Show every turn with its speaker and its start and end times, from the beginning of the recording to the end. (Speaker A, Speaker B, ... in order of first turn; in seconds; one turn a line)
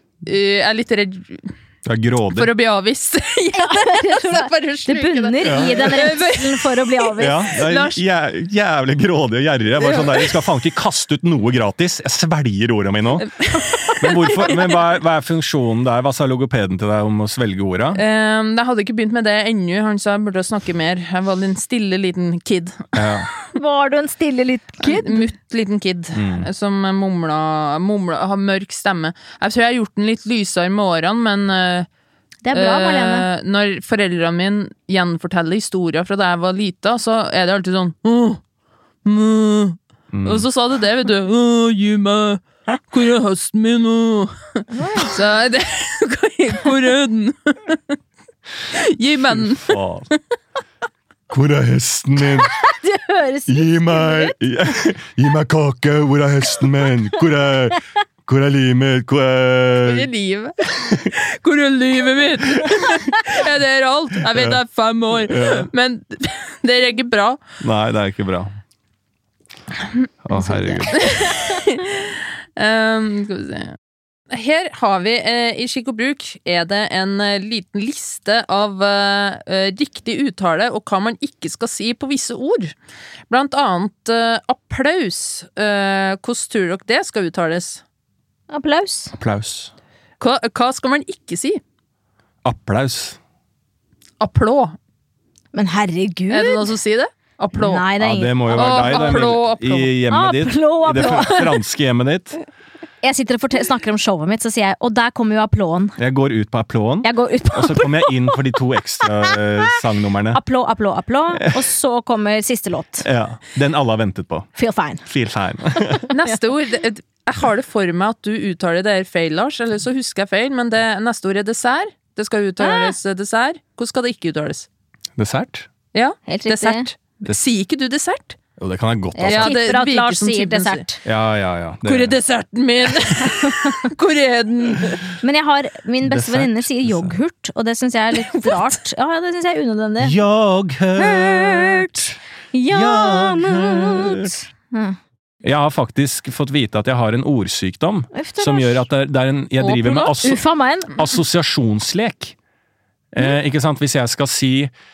Speaker A: 0.2-1.5
Speaker B: 1.8-2.5
Speaker A: 2.3-8.0
Speaker C: 3.5-7.5
Speaker B: 5.4-5.8
Speaker B: 7.2-13.3
Speaker A: 9.8-10.5
Speaker A: 13.2-14.8
Speaker B: 14.0-18.0
Speaker A: 17.9-23.1
Speaker B: 22.9-23.3
Speaker C: 23.5-25.3
Speaker A: 24.8-31.9
Speaker B: 26.1-26.5
Speaker C: 32.4-33.3
Speaker A: 32.5-38.4
Speaker A: 39.0-47.8
Speaker B: 40.1-40.5
Speaker C: 44.7-45.1
Speaker A: 48.7-50.2
Speaker B: 49.3-50.1
Speaker B: 51.3-52.5
Speaker C: 52.6-54.3
Speaker B: 53.5-60.1
Speaker A: 59.8-67.4
Speaker B: 64.3-64.6
Speaker B: 65.2-65.7
Speaker B: 67.6-68.5
Speaker B: 70.2-71.1
Speaker C: 70.3-71.2
Speaker A: 70.9-73.8
Speaker A: 74.3-82.7
Speaker A: 83.3-87.8
Speaker C: 88.5-89.1
Speaker B: 89.2-89.7
Speaker A: 90.2-91.6
Speaker B: 92.4-93.2
Speaker A: 94.2-94.8
Speaker C: 95.5-96.7
Speaker A: 96.3-97.9
Speaker C: 97.5-99.2
Speaker B: 98.0-102.4
Speaker A: 98.5-99.9
Speaker C: 100.1-101.6
Speaker C: 103.0-106.0
Speaker B: 106.0-110.4
Speaker C: 107.0-108.5
Speaker C: 110.3-113.1
Speaker B: 111.3-111.6
Speaker B: 113.0-114.5
Speaker C: 114.5-115.0
Speaker B: 115.0-116.0
Speaker C: 115.8-116.3
Speaker A: 116.1-124.7
Speaker C: 122.6-122.9
Speaker B: 125.2-125.7
Speaker A: 125.9-128.4
Speaker C: 126.3-126.9
Speaker B: 128.6-129.5
Speaker C: 129.1-131.0
Speaker A: 129.2-130.9
Speaker B: 131.0-132.2
Speaker A: 131.8-135.1
Speaker C: 133.4-133.9
Speaker C: 135.2-140.2
Speaker B: 136.0-137.1
Speaker A: 138.2-138.7
Speaker B: 140.0-142.1
Speaker C: 140.9-145.0
Speaker B: 142.7-144.3
Speaker B: 145.4-150.4
Speaker C: 148.1-148.9
Speaker A: 149.6-150.2
Speaker C: 150.2-151.0
Speaker B: 150.9-152.3
Speaker B: 153.1-154.7